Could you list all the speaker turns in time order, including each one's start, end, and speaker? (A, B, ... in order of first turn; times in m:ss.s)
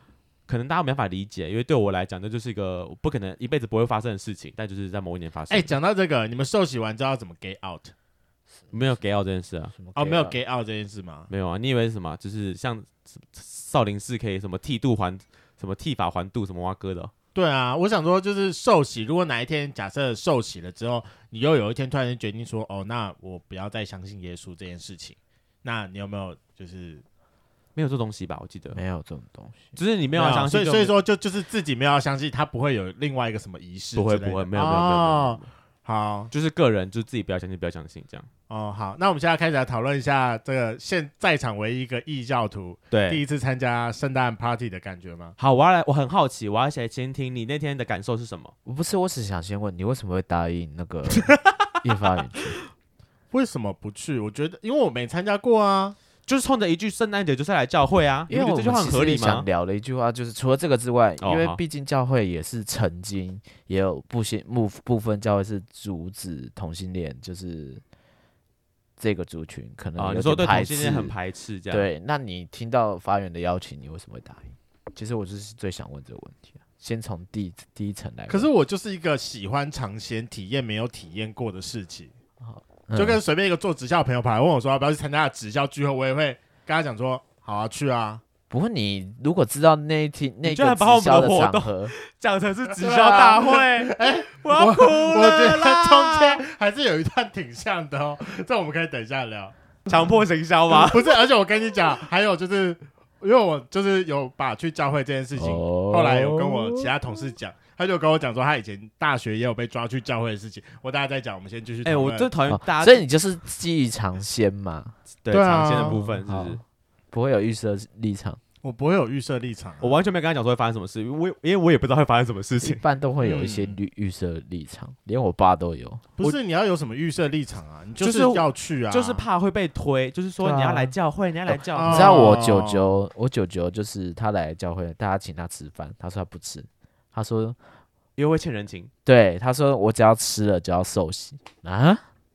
0:00.5-0:05.7 A
0:05.5-0:07.9 B
0:08.7-0:09.7 A
0:09.8-0:10.4 C
0:10.0-0:11.3 B
0:11.3-0:17.1 A
0:17.4-0:27.0 B
0:27.8-0:28.8 A
0:28.7-0:29.8 C
0:29.8-0:30.9 A
0:30.2-0:36.3 B
0:34.0-0:35.5 A
0:36.3-0:38.3 A
0:38.5-0:45.4 B
0:42.9-0:43.2 A
0:45.4-0:48.5 A
0:48.7-0:52.6 C
0:51.2-0:51.5 A
0:53.3-0:56.0 B
0:56.3-0:59.5 A
0:58.3-1:07.8 C
1:01.2-1:01.6 A
1:09.0-1:11.1 C
1:10.0-1:11.9 A
1:11.7-1:18.5 C
1:18.3-1:22.1 B
1:22.4-1:23.2 C
1:23.0-1:28.2 B
1:28.5-1:31.9 C
1:30.4-1:36.4 A
1:32.8-1:40.2 B
1:39.9-1:41.2 A
1:40.7-1:52.3 B
1:45.4-1:46.9 C
1:51.8-1:53.0 A
1:52.5-1:55.0 C
1:55.2-1:56.6 A
1:55.3-1:56.0 B
1:55.8-1:56.6 C
1:57.1-1:58.4 C
1:58.6-2:00.0 B
1:59.8-2:02.8 A
2:02.6-2:06.1 C
2:03.2-2:03.8 B
2:06.2-2:09.3 B
2:08.0-2:12.2 A
2:10.4-2:10.9 C
2:11.5-2:17.6 C
2:11.7-2:12.9 B
2:18.2-2:18.9 A
2:19.0-2:22.0 C